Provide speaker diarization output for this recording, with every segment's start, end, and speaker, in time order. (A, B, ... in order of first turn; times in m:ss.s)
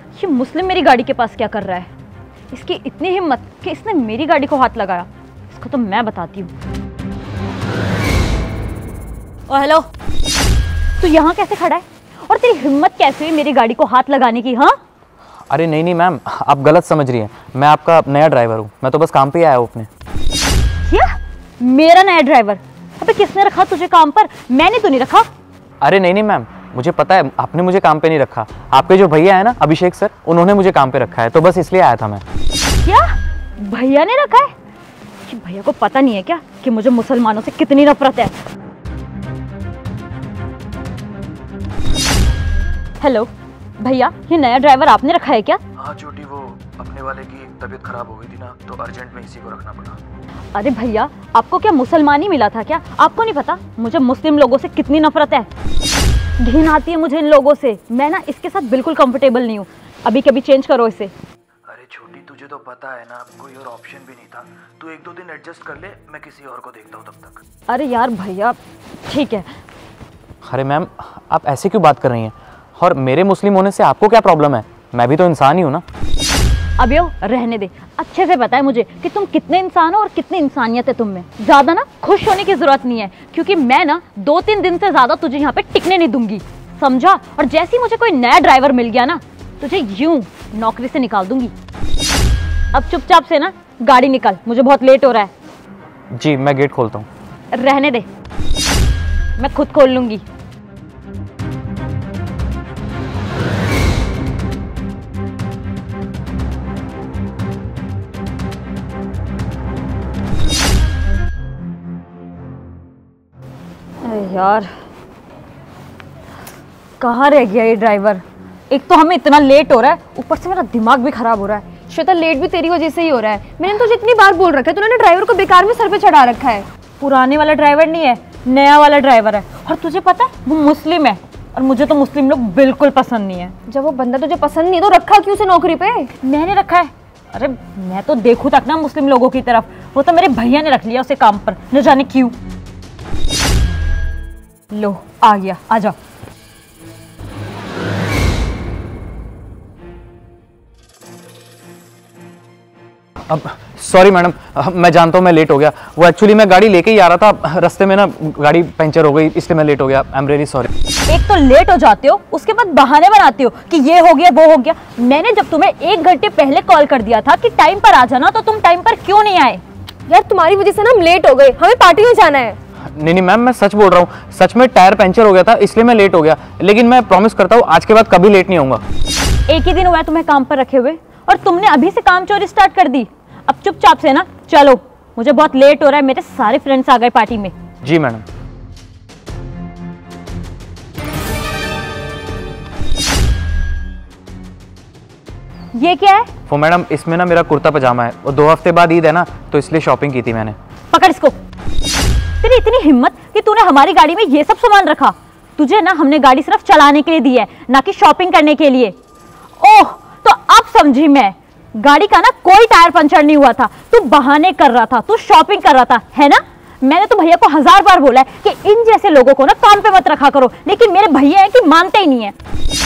0:00.1-0:01.9 A
0:02.5-0:06.5 A
0:09.5-0:09.9 A
0:11.0-0:14.8 A
0:15.5-0:19.9 B
0:20.8-0:25.3 A
0:25.8-0:32.2 B
0:32.8-0:34.5 A
0:35.3-0:38.3 A
0:43.0-0:45.6 A
0:45.8-0:50.0 C
0:50.5-0:55.5 A
0:56.4-1:01.1 A
1:01.7-1:07.4 C
1:07.7-1:09.5 A
1:10.4-1:15.8 B
1:16.8-1:31.5 A
1:32.7-1:35.3 A
1:36.1-1:37.1 B
1:37.5-1:38.1 A
1:39.4-1:40.2 A
1:54.0-1:54.7 A
1:57.0-2:01.6 A
2:01.9-2:06.6 D
2:07.0-2:13.5 A
2:13.9-2:16.1 D
2:16.2-2:22.3 A
2:24.7-2:26.0 A
2:33.3-2:40.7 B
2:41.1-2:49.6 A
2:50.1-2:52.5 D
2:52.9-2:58.8 B
2:59.5-3:07.5 A
3:07.8-3:08.2 B
3:15.7-3:16.3 A
3:16.5-3:20.6 B
3:20.9-3:21.4 A
3:22.4-3:28.9 A
3:29.6-3:42.3 A